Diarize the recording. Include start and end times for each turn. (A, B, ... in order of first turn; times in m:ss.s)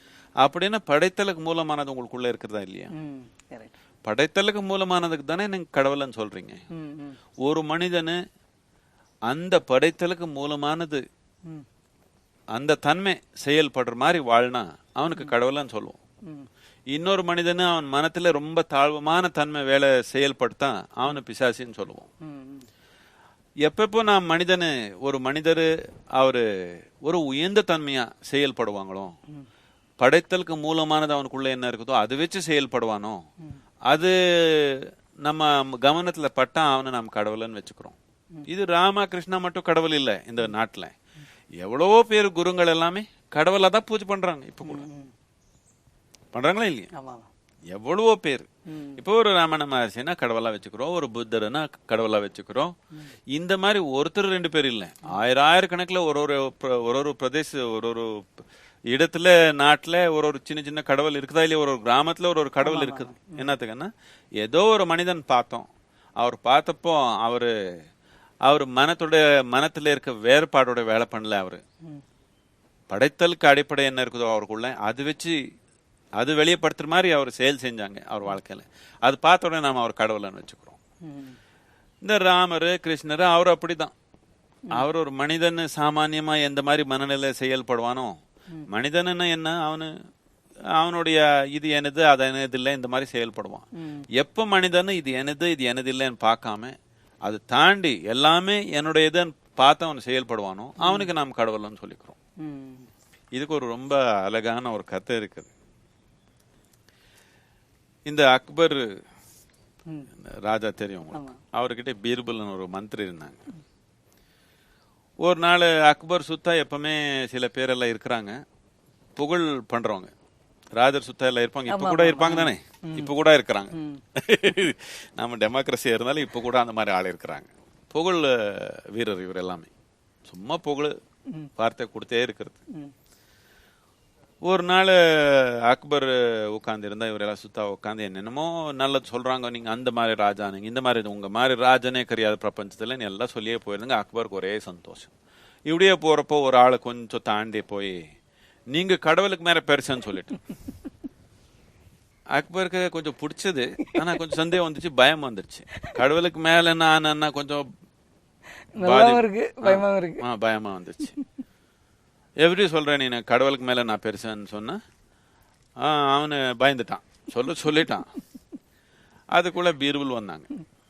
0:00.4-0:02.9 A
0:02.9-0:03.7 B
0:04.0-0:06.6 A
0:06.7-0:07.2 B
0:07.4-0:08.2 A
0:09.3-0:11.0 A
0:12.5-0:16.0 A
0:16.9-0:22.1 A
0:22.2-0:22.6 B
0:23.6-0:29.1 A
0:30.0-0:33.2 A
0:33.9-0:38.0 A
0:38.5-0:40.9 A
0:41.6-0:44.9 A
0:44.6-0:45.1 B
0:46.3-0:46.9 A
0:46.9-0:47.3 B
0:47.7-0:52.7 A
0:48.7-0:49.0 B
0:53.3-1:03.9 A
1:02.6-1:03.5 B
1:04.4-1:05.7 A
1:06.2-1:07.7 A
1:08.4-1:11.6 A
1:12.9-1:15.4 A
1:16.2-1:20.8 A
1:21.0-1:21.4 B
1:22.0-1:23.9 A
1:24.7-1:28.2 A
1:28.7-1:29.9 A
1:30.7-1:42.2 A
1:40.8-1:41.1 B
1:42.4-1:42.8 B
1:43.3-1:45.5 A
1:48.0-1:48.9 A
1:50.2-1:53.4 A
1:55.2-1:58.4 A
1:59.2-2:00.1 A
2:00.7-2:09.7 A
2:01.7-2:03.1 B
2:03.7-2:04.0 B
2:10.3-2:11.0 A
2:11.6-2:12.6 A
2:14.4-2:25.1 A
2:25.7-2:28.0 A
2:28.7-2:30.4 A
2:32.3-2:37.6 A
2:38.7-2:40.2 B
2:38.8-2:41.1 A
2:42.4-2:44.8 A
2:45.8-2:48.1 A
2:49.3-2:50.5 A